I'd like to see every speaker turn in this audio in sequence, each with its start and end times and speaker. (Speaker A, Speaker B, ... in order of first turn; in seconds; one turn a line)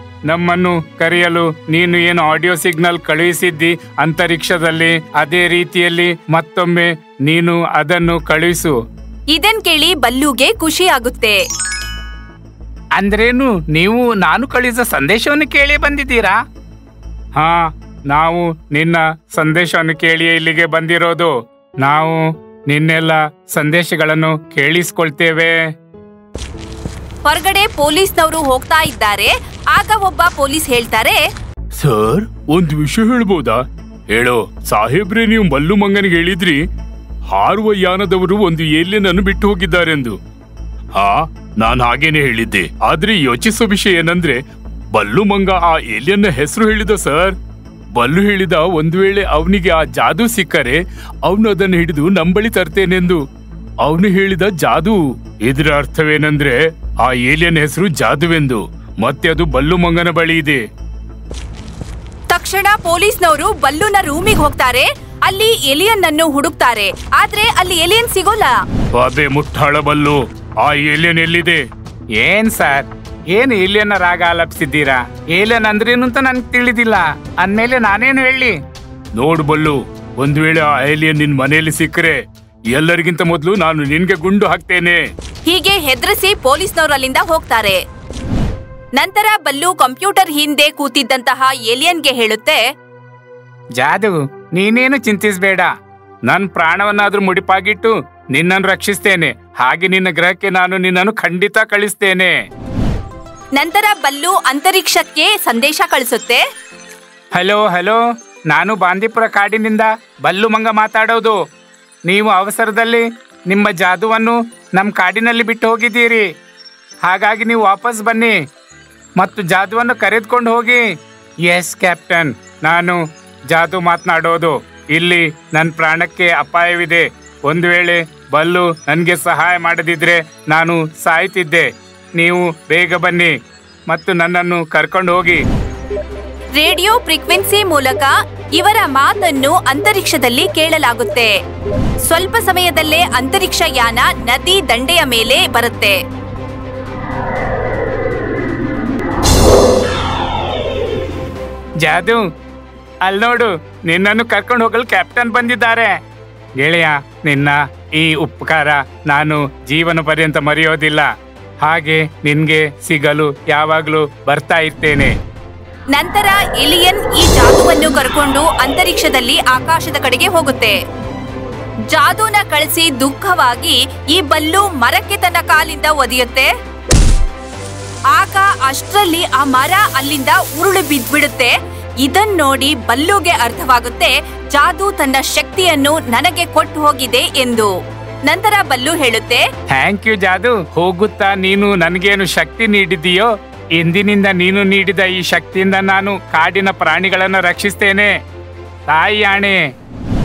Speaker A: 0.3-8.7
Speaker B: 9.3-11.4
Speaker A: 13.0-16.4
Speaker A: 17.4-25.6
Speaker B: 27.2-31.2
Speaker C: 31.8-36.6
Speaker C: 37.3-40.1
Speaker C: 41.0-44.4
Speaker C: 44.9-47.3
Speaker C: 47.9-53.2
Speaker C: 53.8-60.6
Speaker B: 62.3-68.5
Speaker C: 68.9-71.6
Speaker A: 72.2-78.5
Speaker C: 79.2-82.2
Speaker C: 82.7-84.9
Speaker A: 84.3-84.9
Speaker B: 85.5-87.8
Speaker B: 89.0-92.6
Speaker A: 93.8-95.7
Speaker A: 96.3-102.3
Speaker B: 103.5-106.4
Speaker A: 107.3-111.4
Speaker A: 112.1-116.2
Speaker A: 117.0-118.3
Speaker A: 119.2-120.8
Speaker A: 121.5-133.3
Speaker A: 133.9-135.4
Speaker B: 136.6-141.3
Speaker B: 142.1-145.9
Speaker A: 151.8-152.2
Speaker A: 153.1-155.9
Speaker A: 156.6-161.1
Speaker A: 161.6-165.1
Speaker B: 165.9-170.7
Speaker B: 171.9-176.5
Speaker B: 178.1-187.7
Speaker B: 188.2-189.4
Speaker A: 189.7-198.1
Speaker A: 198.9-199.6